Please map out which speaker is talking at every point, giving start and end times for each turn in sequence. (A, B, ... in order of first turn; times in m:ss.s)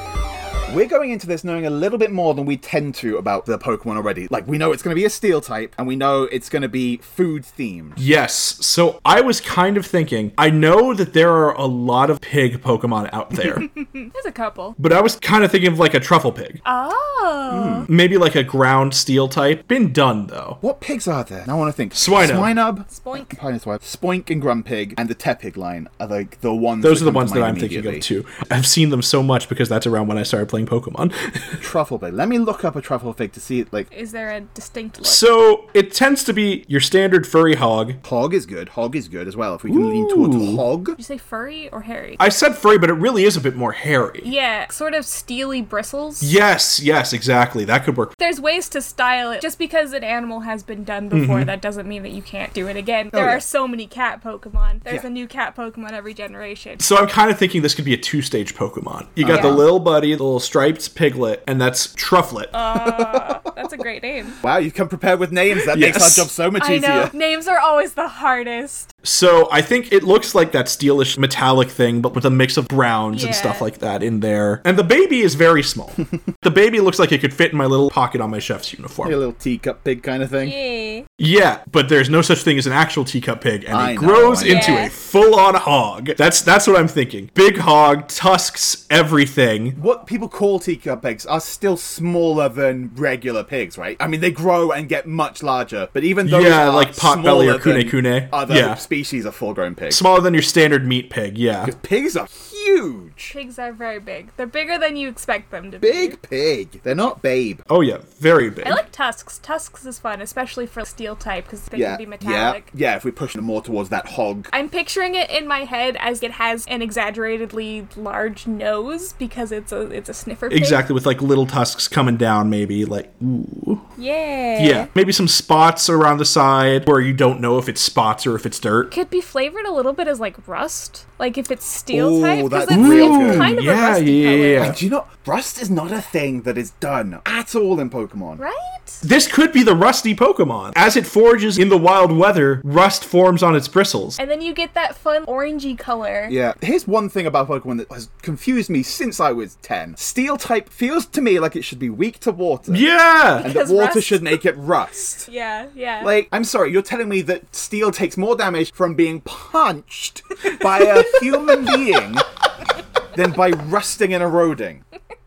0:00.7-0:08.0 A
0:08.0-0:13.7 B
0:13.6-0:14.8 C
0:14.8-0:16.6 B
0:16.6-0:17.9 C
0:17.5-0:17.9 A
0:17.9-0:20.6 B
0:20.6-0:28.0 A
0:21.9-0:22.5 B
0:22.9-0:23.4 C
0:26.8-0:31.6 B
0:31.6-0:33.9 A
0:33.9-0:35.2 C
0:35.0-0:38.0 B
0:38.0-0:41.0 A
0:39.7-0:40.6 B
0:41.0-0:42.2 C
0:42.2-0:44.3 B
0:44.2-0:46.3 C
0:46.2-0:48.1 B
0:48.2-0:56.8 C
0:51.1-0:51.5 B
0:53.1-0:53.4 A
0:56.8-1:02.5 B
0:59.2-0:59.6 A
0:59.3-0:59.6 C
1:02.5-1:04.4 C
1:02.7-1:03.5 A
1:04.4-1:07.1 A
1:05.7-1:06.3 B
1:06.6-1:08.9 C
1:09.0-1:19.2 B
1:13.1-1:13.6 C
1:19.0-1:20.5 A
1:20.4-1:21.0 C
1:21.2-1:29.8 B
1:23.7-1:24.9 A
1:24.4-1:24.9 C
1:29.8-1:40.0 A
1:36.2-1:38.8 B
1:39.9-1:41.7 B
1:41.6-1:43.3 A
1:43.3-1:46.2 C
1:45.8-1:47.6 A
1:47.7-1:48.8 B
1:48.6-1:52.6 C
1:51.7-1:54.5 A
1:54.5-2:00.8 C
2:00.5-2:03.8 B
2:04.0-2:04.9 C
2:04.6-2:08.9 B
2:08.9-2:14.7 C
2:11.9-2:13.5 A
2:12.7-2:14.8 B
2:14.6-2:18.4 A
2:18.4-2:19.0 C
2:19.0-2:24.2 B
2:24.2-2:26.3 C
2:26.3-2:32.8 A
2:32.7-2:33.5 B
2:33.4-2:34.4 C
2:33.4-2:35.3 A
2:35.2-2:36.1 C
2:36.0-2:42.2 A
2:41.0-2:41.7 C
2:43.1-2:44.8 A